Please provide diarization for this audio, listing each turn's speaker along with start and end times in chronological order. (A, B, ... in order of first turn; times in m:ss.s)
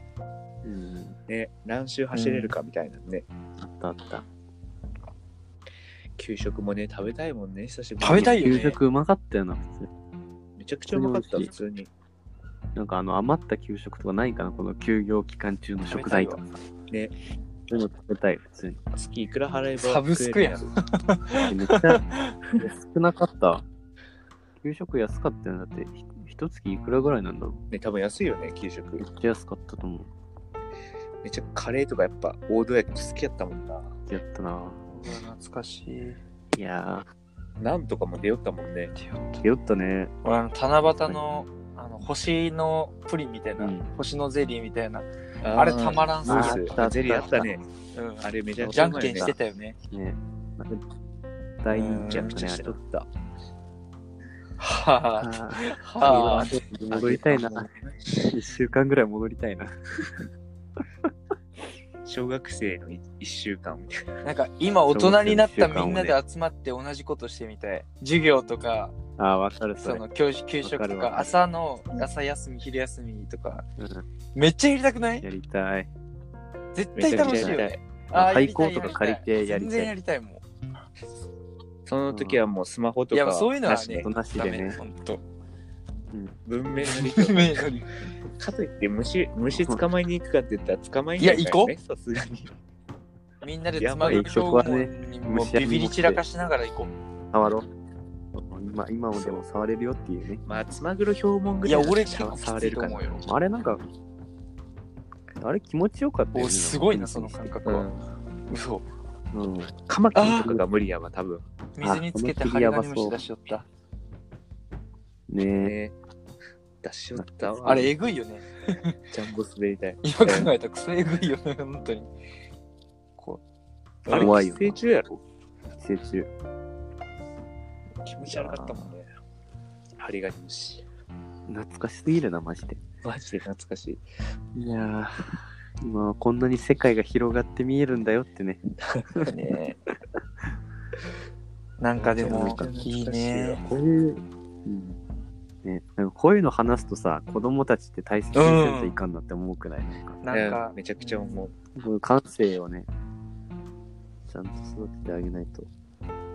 0:00.6-0:01.2 A
0:01.3-0:03.2 B
0:02.1-0:02.5 C
0:03.6-0:04.2 A
0:06.2-0:08.7 B
0:08.0-0:08.8 C
0:08.1-0:09.9 A
0:10.6-0:11.9 B
0:10.9-0:11.5 A
0:12.7-0:16.6 A
0:15.9-0:16.4 C
0:16.9-0:17.1 B
0:17.7-0:18.8 A
0:18.9-0:20.7 B
0:19.8-0:22.3 C
0:21.4-0:22.0 A
0:22.6-0:23.6 A
0:24.6-0:27.6 A
0:27.7-0:29.0 B
0:29.0-0:30.1 A
0:31.2-0:33.9 B
0:34.1-0:34.8 A
0:34.9-0:36.2 C
0:36.5-0:37.1 A
0:37.6-0:38.9 B
0:39.0-0:39.4 C
0:39.4-0:40.1 A
0:40.2-0:47.3 C
0:40.8-0:41.2 A
0:43.6-0:43.9 A
0:45.4-0:47.6 B
0:46.2-0:47.5 A
0:47.9-0:49.8 C
0:48.2-0:49.3 B
0:48.6-0:49.4 A
0:49.9-0:50.8 A
0:51.6-0:52.8 A
0:51.7-0:52.4 C
0:52.1-0:53.1 B
0:54.6-0:56.6 C
0:55.2-1:00.1 A
0:56.9-0:58.0 B
1:02.0-1:04.1 B
1:04.2-1:09.0 C
1:04.9-1:06.2 A
1:09.2-1:10.0 A
1:09.8-1:13.6 C
1:10.6-1:11.4 A
1:13.8-1:14.0 A
1:14.3-1:15.2 C
1:15.2-1:15.9 A
1:16.7-1:20.4 C
1:17.0-1:17.8 B
1:17.1-1:17.6 A
1:18.1-1:19.9 A
1:21.8-1:24.1 B
1:22.1-1:22.4 A
1:23.1-1:25.2 C
1:23.9-1:24.8 A
1:26.4-1:27.7 B
1:26.8-1:27.9 C
1:28.4-1:32.5 B
1:29.5-1:29.8 A
1:31.2-1:31.7 C
1:33.4-1:36.9 C
1:33.8-1:34.4 B
1:34.0-1:36.2 A
1:37.3-1:37.7 A
1:38.3-1:40.4 A
1:40.4-1:43.1 B
1:41.6-1:43.2 C
1:43.2-1:43.8 A
1:45.4-1:47.6 A
1:46.3-1:47.9 C
1:47.6-1:48.0 B
1:48.5-1:48.8 C
1:49.3-1:49.7 A
1:49.9-1:51.4 B
1:50.1-1:50.5 C
1:50.4-1:50.7 A
1:51.8-1:53.6 C
1:51.8-1:53.2 A
1:55.3-1:55.7 A
1:55.6-1:56.0 B
1:56.8-1:57.9 B
1:57.2-1:57.9 A
1:57.6-1:59.0 C
1:59.1-2:00.5 B
2:00.0-2:02.1 C
2:04.0-2:04.4 C
2:04.1-2:05.2 B
2:04.1-2:04.8 A
2:05.8-2:06.3 A
2:08.0-2:09.1 B
2:08.3-2:08.9 A
2:10.0-2:10.8 B
2:11.5-2:12.8 A
2:13.0-2:14.0 B
2:14.5-2:18.6 A
2:19.2-2:19.8 C
2:21.8-2:23.6 C
2:22.0-2:23.6 B
2:22.2-2:22.7 A
2:23.6-2:25.0 A
2:25.6-2:30.2 A
2:28.3-2:29.0 C
2:30.2-2:31.4 C
2:30.3-2:31.5 B
2:31.8-2:32.9 A
2:34.3-2:35.7 A